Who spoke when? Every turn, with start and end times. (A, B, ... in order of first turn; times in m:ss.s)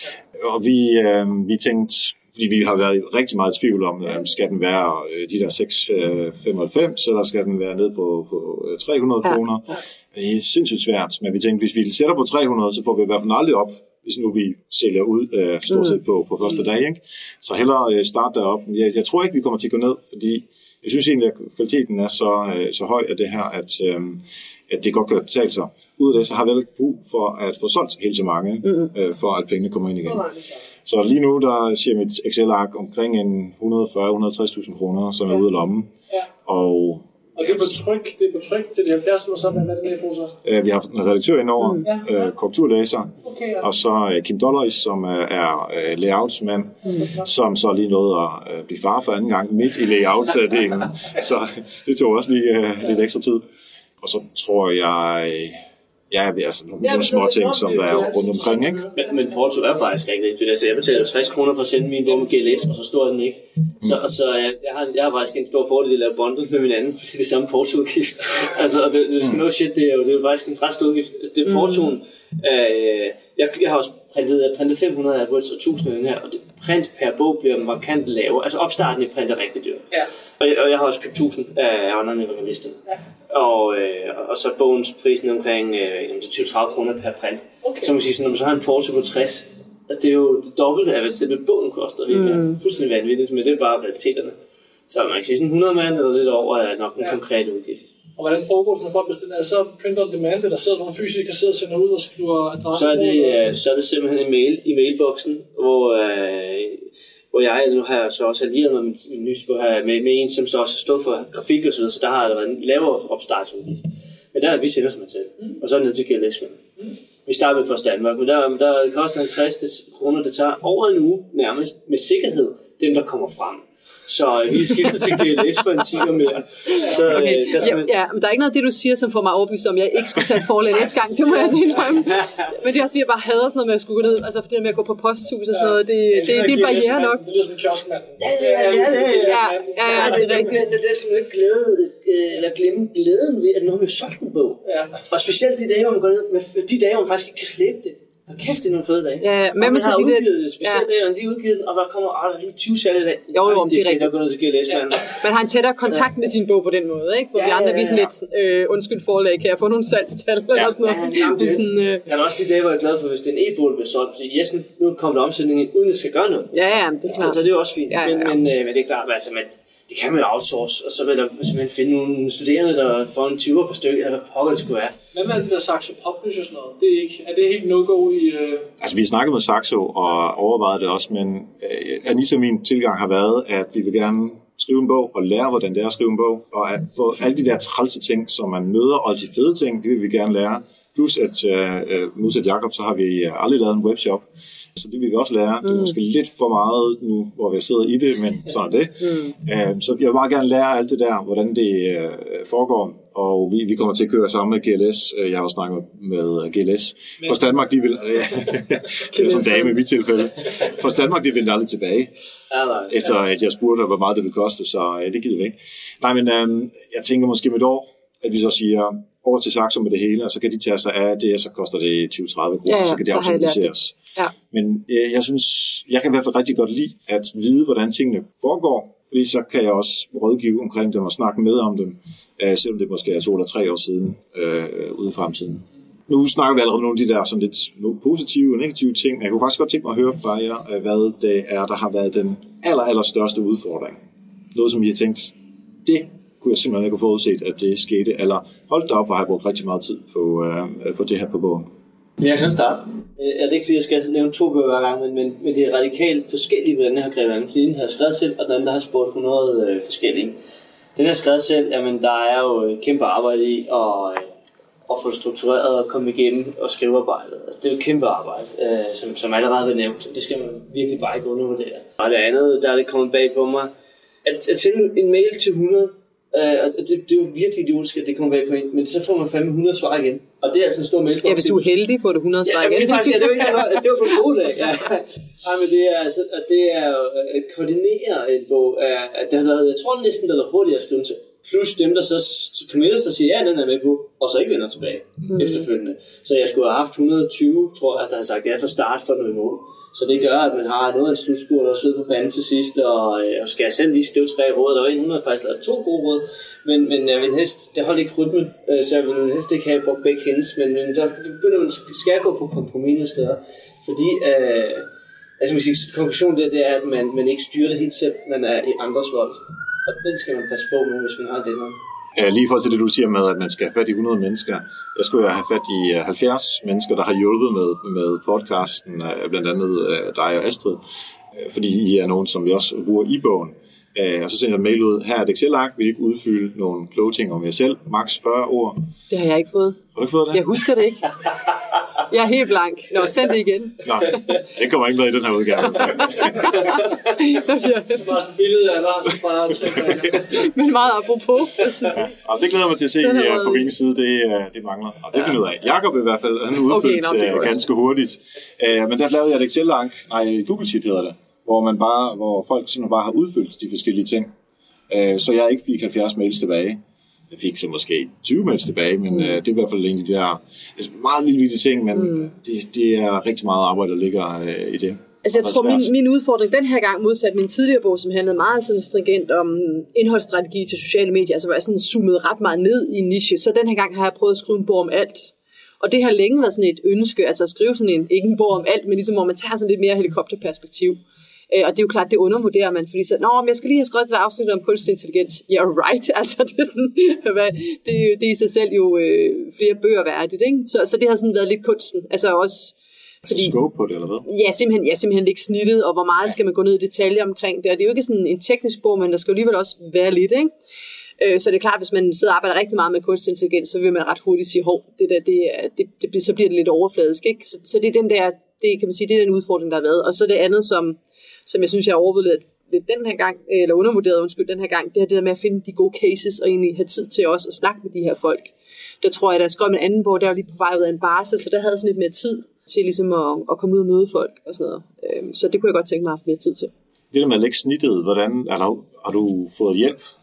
0:00.4-0:30.2 A
0:28.6-0:28.9 B
0:30.0-0:30.6 C
0:30.8-0:35.9 A
0:36.4-0:37.7 A
0:37.4-0:40.4 C
0:40.4-0:53.4 A
0:41.8-0:42.3 C
0:43.2-0:43.7 C
0:46.8-0:47.3 C
0:54.0-0:55.6 A
0:56.1-0:58.9 A
0:56.8-0:59.0 C
0:58.9-1:19.8 D
1:02.1-1:02.4 C
1:11.5-1:11.9 B
1:20.4-1:22.8 D
1:23.3-1:34.4 D
1:27.6-1:27.9 C
1:32.1-1:32.6 B
1:34.9-1:37.9 D
1:38.2-1:43.4 C
1:42.7-1:56.6 D
1:57.2-2:07.9 D
2:06.7-2:07.7 C
2:06.7-2:17.2 B
2:11.8-2:12.4 D
2:15.5-2:20.5 C
2:18.2-2:35.2 D
2:19.2-2:20.6 B
2:24.6-2:25.0 C
2:29.2-2:30.8 B
2:33.3-2:34.1 B
2:35.2-2:42.0 B
2:37.3-2:38.1 D
2:40.8-2:46.5 D
2:46.5-2:48.4 B
2:47.1-2:54.9 D
2:55.1-2:58.7 C
2:58.8-3:14.2 A
3:14.8-3:32.1 A
3:19.0-3:19.3 B
3:29.1-3:29.8 B
3:32.5-3:33.1 D
3:32.9-3:43.9 A
3:42.7-3:43.6 B
3:44.5-4:04.0 A
4:04.5-4:11.7 A
4:12.2-4:20.4 D
4:21.0-4:24.3 D
4:24.9-4:33.7 D
4:34.2-4:41.7 D
4:41.2-4:43.8 B
4:42.4-5:14.9 D
4:55.3-4:55.6 B
5:15.4-5:21.8 D
5:22.1-5:30.8 A
5:31.3-5:38.8 A
5:39.1-5:39.8 B
5:39.9-5:40.7 A
5:40.3-5:41.1 B
5:42.1-5:44.2 B
5:43.8-5:46.6 A
5:45.8-5:48.0 B
5:47.9-5:50.5 C
5:50.3-5:52.0 B
5:52.0-6:04.3 A
5:53.0-5:53.7 B
5:56.7-5:57.6 B
6:04.9-6:06.8 A
6:07.3-6:15.9 A
6:15.2-6:31.0 B
6:31.5-6:42.7 B
6:43.2-6:44.2 A
6:43.3-6:43.6 B
6:44.2-6:50.5 B
6:51.2-7:16.7 B
7:17.1-7:20.0 A